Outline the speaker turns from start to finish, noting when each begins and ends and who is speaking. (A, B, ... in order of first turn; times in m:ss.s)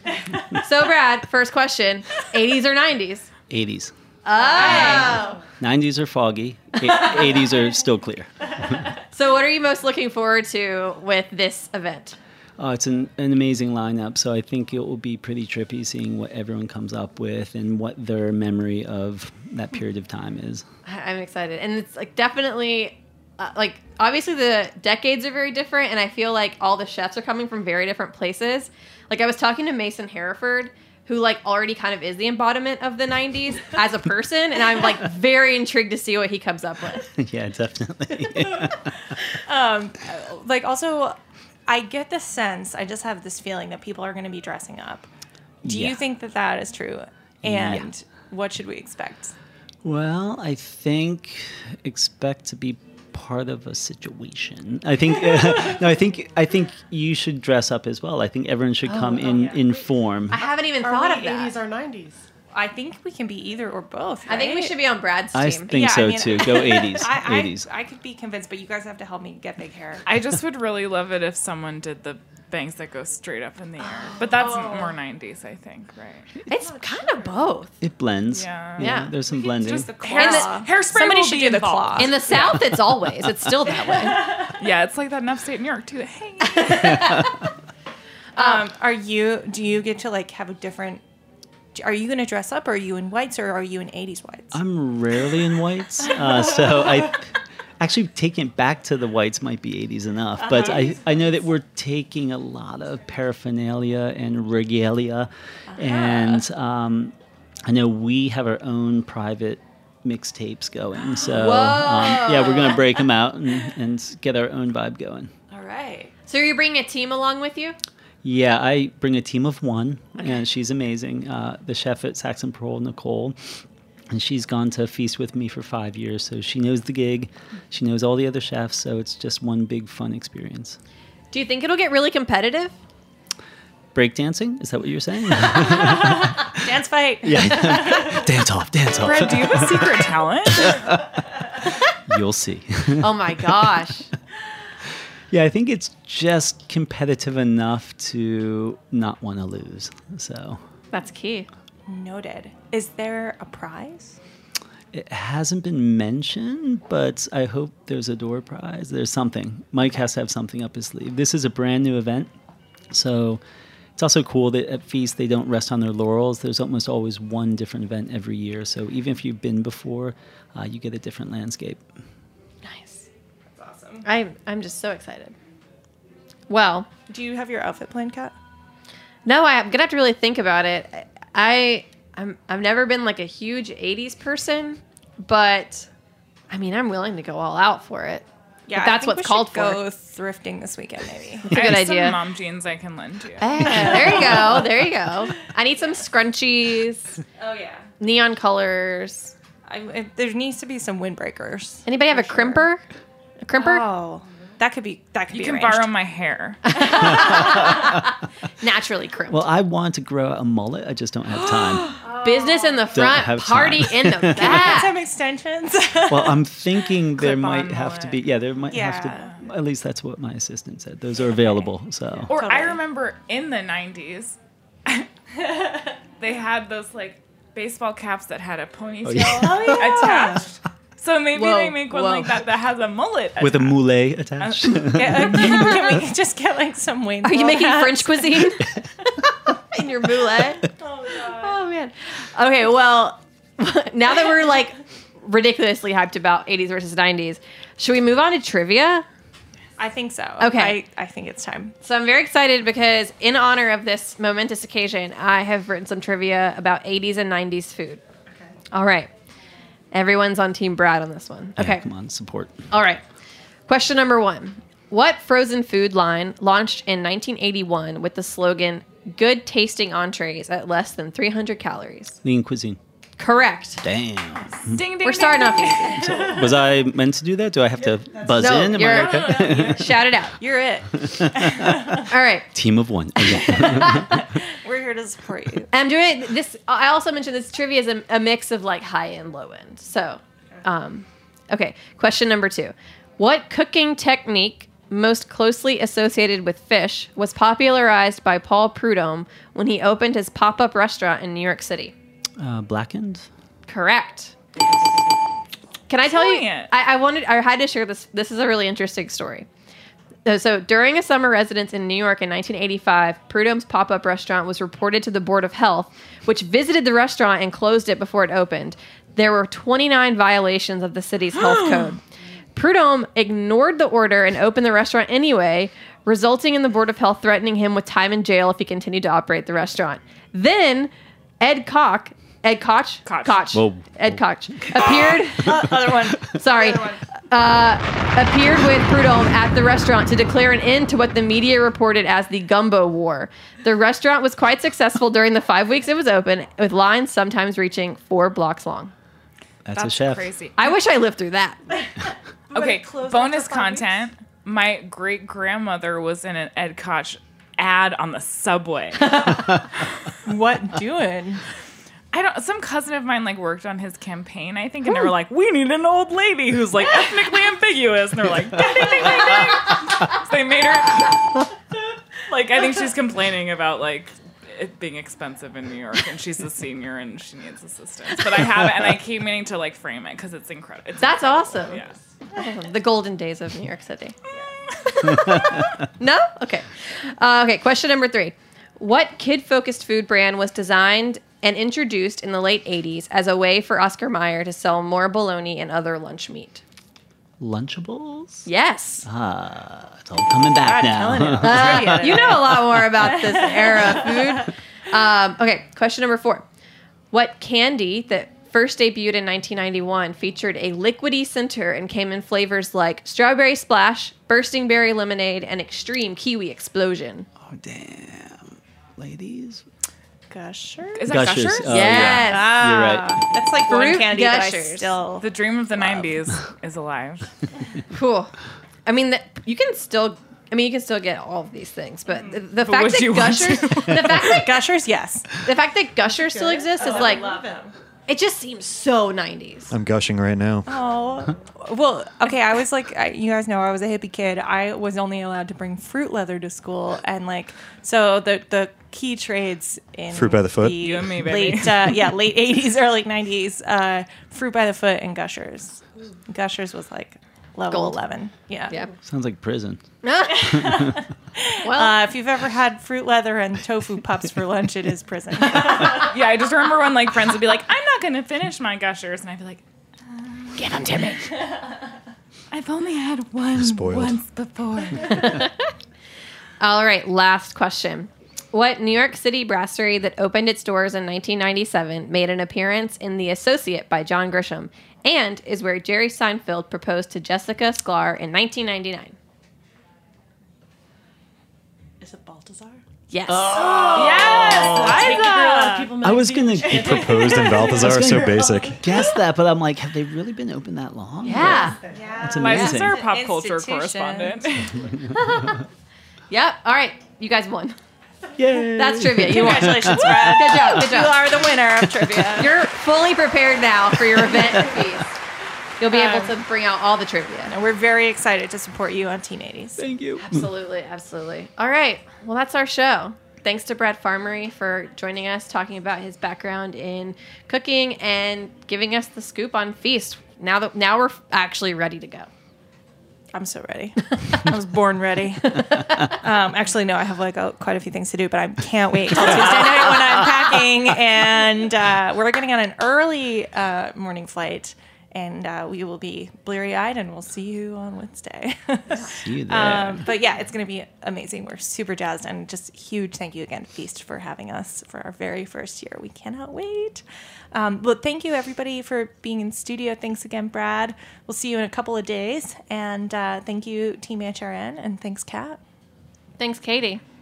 0:00.5-0:03.3 A
0:03.5-0:03.9 B
0:04.2-0:05.4 A
0:04.4-0:05.4 C
0:04.7-0:05.0 B
0:04.8-0:05.3 D
0:05.6-0:08.9 B
0:09.1-0:12.2 A
0:12.6-0:20.6 B
0:20.8-0:37.1 A
0:37.1-0:39.1 B
0:39.3-0:45.1 C
0:45.6-0:46.0 B
0:45.6-0:49.3 C
0:47.4-0:47.9 B
0:49.8-1:00.3 B
0:58.8-0:59.5 A
1:00.3-1:01.6 A
1:00.4-1:02.2 D
1:02.5-1:04.7 C
1:04.3-1:05.8 A
1:05.3-1:07.7 B
1:05.7-1:10.0 C
1:10.0-1:16.3 E
1:13.8-1:14.9 C
1:16.5-1:17.7 A
1:16.5-1:17.5 D
1:17.8-1:19.9 B
1:18.3-1:22.6 E
1:18.8-1:19.1 A
1:19.6-1:22.4 C
1:20.1-1:20.6 A
1:22.0-1:24.4 A
1:24.5-1:27.2 E
1:28.4-1:28.6 A
1:28.4-1:31.0 C
1:31.7-1:34.6 C
1:34.5-1:47.1 B
1:40.4-1:41.0 C
1:45.7-1:46.4 C
1:47.6-1:55.3 B
1:51.2-1:52.8 A
1:55.5-1:56.1 C
1:56.3-1:57.8 A
1:58.2-2:10.8 B
2:11.3-2:12.8 A
2:13.9-2:16.7 B
2:15.6-2:18.3 C
2:17.2-2:21.1 B
2:19.0-2:20.9 E
2:22.0-2:23.9 B
2:23.0-2:24.1 A
2:25.3-2:30.6 B
2:30.9-2:31.5 A
2:31.9-2:34.2 C
2:34.9-2:42.3 B
2:42.9-2:43.4 B
2:44.0-2:51.8 B
2:52.6-2:53.0 A
2:53.5-2:54.0 C
2:54.0-2:55.3 A
2:56.5-2:56.9 A
2:57.1-2:58.3 C
2:59.2-3:05.9 A
3:06.5-3:09.8 A
3:08.7-3:11.5 C
3:11.5-3:12.2 A
3:11.5-3:13.4 E
3:13.4-3:17.2 A
3:13.6-3:14.6 C
3:17.4-3:17.8 C
3:18.0-3:19.3 A
3:19.7-3:22.7 C
3:21.8-3:22.8 A
3:23.4-3:23.8 A
3:23.6-3:25.9 C
3:25.3-3:26.8 E
3:26.6-3:29.4 A
3:27.2-3:27.9 B
3:27.2-3:27.6 C
3:29.3-3:31.9 B
3:32.0-3:33.1 C
3:32.2-3:34.9 A
3:32.9-3:34.8 B
3:34.3-3:37.0 C
3:36.1-3:42.3 B
3:37.2-3:38.1 E
3:38.7-3:39.4 C
3:42.3-3:45.1 E
3:42.3-3:42.8 C
3:45.4-3:45.9 C
3:46.2-3:53.8 E
3:49.0-3:50.1 B
3:49.2-3:50.4 C
3:51.3-3:52.3 A
3:53.4-3:56.0 B
3:54.4-3:55.6 E
3:54.9-3:58.5 C
3:55.4-3:55.6 A
3:57.2-3:58.7 A
3:59.7-4:00.7 A
4:00.8-4:01.6 C
4:01.3-4:09.0 A
4:09.8-4:11.8 C
4:10.4-4:10.8 A
4:11.8-4:18.0 A
4:18.7-4:19.1 A
4:19.9-4:21.8 A
4:21.6-4:22.6 B
4:22.7-4:23.0 A
4:23.7-4:32.2 A
4:32.2-4:32.8 B
4:33.2-4:33.8 A
4:33.8-4:34.8 B
4:34.6-4:36.2 E
4:35.0-4:36.3 A
4:35.9-4:40.1 B
4:37.9-4:39.7 D
4:38.3-4:40.4 A
4:40.4-4:42.1 C
4:41.0-4:41.9 B
4:42.1-4:42.5 A
4:42.5-4:44.3 B
4:43.5-4:44.0 A
4:43.5-4:45.7 C
4:45.7-5:01.9 A
5:02.4-5:03.3 B
5:03.7-5:04.3 A
5:05.9-5:09.5 A
5:06.0-5:06.7 E
5:10.2-5:22.0 A
5:22.6-5:35.8 A
5:33.0-5:33.5 E
5:33.5-5:36.2 B
5:34.9-5:37.0 C
5:36.3-5:48.9 A
5:49.6-5:50.3 B
5:49.7-5:50.6 E
5:50.6-5:51.6 A
5:51.7-5:54.1 D
5:52.5-5:59.9 E
6:00.2-6:01.4 C
6:02.1-6:11.3 E
6:12.2-6:22.0 E
6:21.0-6:21.8 A
6:22.3-6:24.1 A
6:24.8-6:36.6 A
6:37.4-6:38.5 B
6:38.4-6:39.0 A
6:39.0-6:43.2 B
6:40.6-6:44.5 C
6:41.4-6:46.4 A
6:47.1-6:57.3 A
6:57.4-6:59.6 B
7:00.3-7:06.1 C
7:00.9-7:02.2 E
7:01.1-7:03.2 B
7:01.7-7:02.6 A
7:03.6-7:05.0 A
7:05.2-7:07.3 E
7:07.9-7:08.3 A
7:08.8-7:14.6 A
7:12.6-7:14.0 E
7:13.9-7:15.3 C
7:15.4-7:17.2 A
7:16.1-7:17.7 D
7:16.7-7:17.7 C
7:18.1-7:19.7 A
7:19.7-7:20.7 F
7:20.7-7:38.8 C
7:30.1-7:30.8 F
7:30.8-7:32.0 E
7:37.7-7:38.0 A
7:39.0-7:41.1 B
7:40.0-7:40.8 A
7:40.4-7:46.1 C
7:41.6-7:42.0 A
7:45.6-7:51.5 E
7:50.6-7:51.2 A
7:52.5-7:55.4 E
7:53.6-7:54.2 F
7:55.0-7:55.6 A
7:56.6-8:09.2 A
8:12.0-8:12.8 D
8:13.1-8:14.5 A
8:13.3-8:15.2 B
8:13.7-8:19.1 D
8:13.9-8:15.9 C
8:16.0-8:23.0 B
8:16.7-8:18.8 F
8:21.2-8:21.8 A
8:21.4-8:24.5 C
8:21.4-8:22.4 D
8:22.4-8:24.9 E
8:25.1-8:25.6 A
8:26.3-8:27.8 A
8:28.4-8:30.9 B
8:28.7-8:31.2 A
8:29.2-8:32.5 C
8:31.8-8:32.3 B
8:32.4-8:35.1 A
8:34.4-8:34.8 B
8:35.8-8:37.5 A
8:35.9-8:36.4 C
8:37.5-8:39.9 C
8:39.8-8:40.5 B
8:40.2-8:52.3 A
8:53.3-9:25.6 C
8:55.5-8:56.1 A
8:59.2-9:00.2 A
9:09.1-9:10.1 B
9:26.4-9:27.0 A